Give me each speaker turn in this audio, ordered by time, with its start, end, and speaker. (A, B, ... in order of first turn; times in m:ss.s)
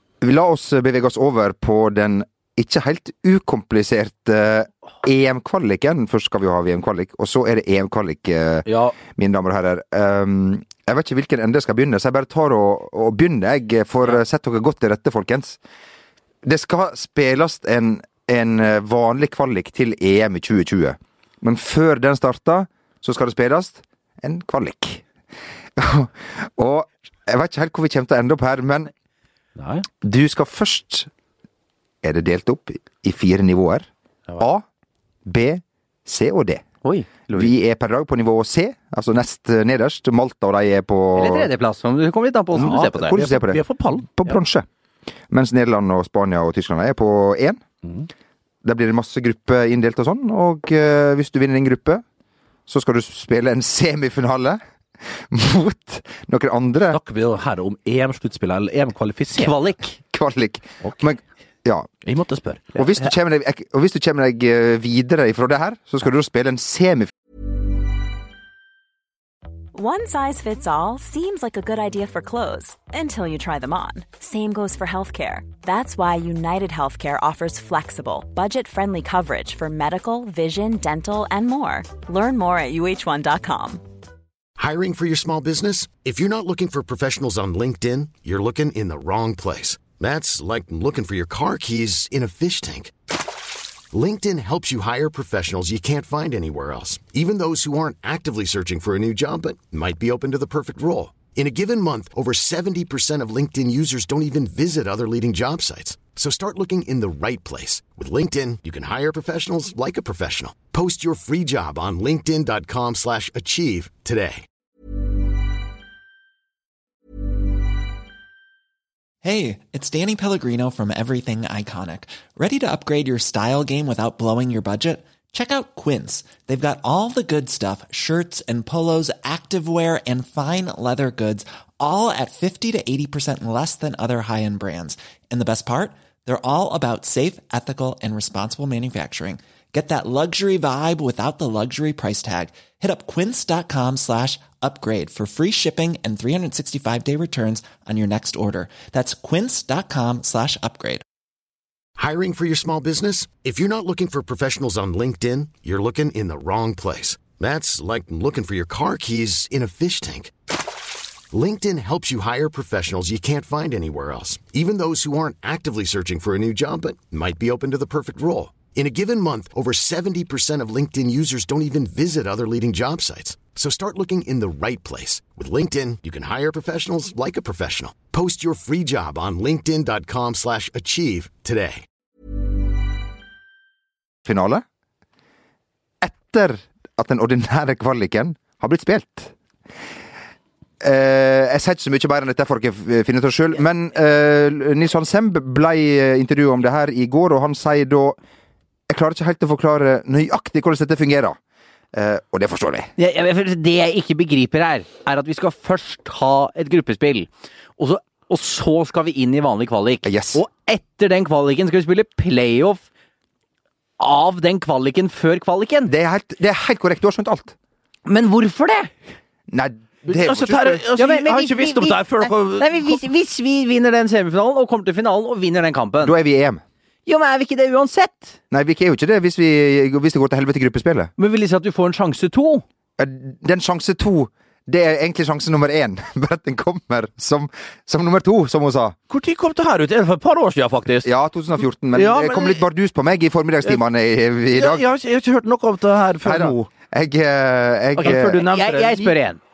0:00.2-0:15.6 A
0:08.7-0:09.0 B
0:16.4-0:25.0 A
0:25.8-0:28.9 A
0:29.6-0:29.9 B
0:30.0-0:31.1 A
0:32.0-0:33.9 A
0:34.4-0:34.6 A
0:35.2-0:36.6 A
0:36.8-0:37.5 C
0:37.3-0:41.5 A
0:41.1-0:43.2 C
0:42.5-0:44.6 A
0:42.6-0:44.1 B
0:45.3-0:47.6 A
0:48.6-0:52.0 A
0:52.7-0:54.6 A
0:55.1-0:57.0 A
0:56.9-0:59.5 B
0:59.3-1:00.0 C
1:00.0-1:01.9 A
1:02.0-1:02.7 B
1:02.8-1:07.1 A
1:09.7-1:23.8 D
1:24.6-1:32.9 E
1:33.9-1:54.4 E
1:59.2-2:31.0 F
2:32.0-2:40.3 E
2:41.3-3:01.8 E
3:04.2-3:04.6 A
3:06.0-3:09.3 A
3:10.8-3:18.2 A
3:18.9-3:21.4 A
3:21.9-3:22.9 A
3:23.0-3:32.8 C
3:30.0-3:30.4 A
3:34.0-3:35.9 C
3:35.9-3:37.5 A
3:38.0-3:38.9 C
3:39.5-3:40.8 A
3:40.0-3:43.0 B
3:41.0-3:46.2 C
3:46.0-3:46.6 A
3:47.0-3:48.3 C
3:48.5-3:51.1 A
3:51.2-3:52.6 C
3:53.0-3:58.9 A
3:59.1-4:01.1 B
4:01.0-4:04.8 A
4:01.9-4:02.6 B
4:04.5-4:06.7 B
4:06.2-4:08.4 A
4:08.0-4:09.4 C
4:08.0-4:09.1 B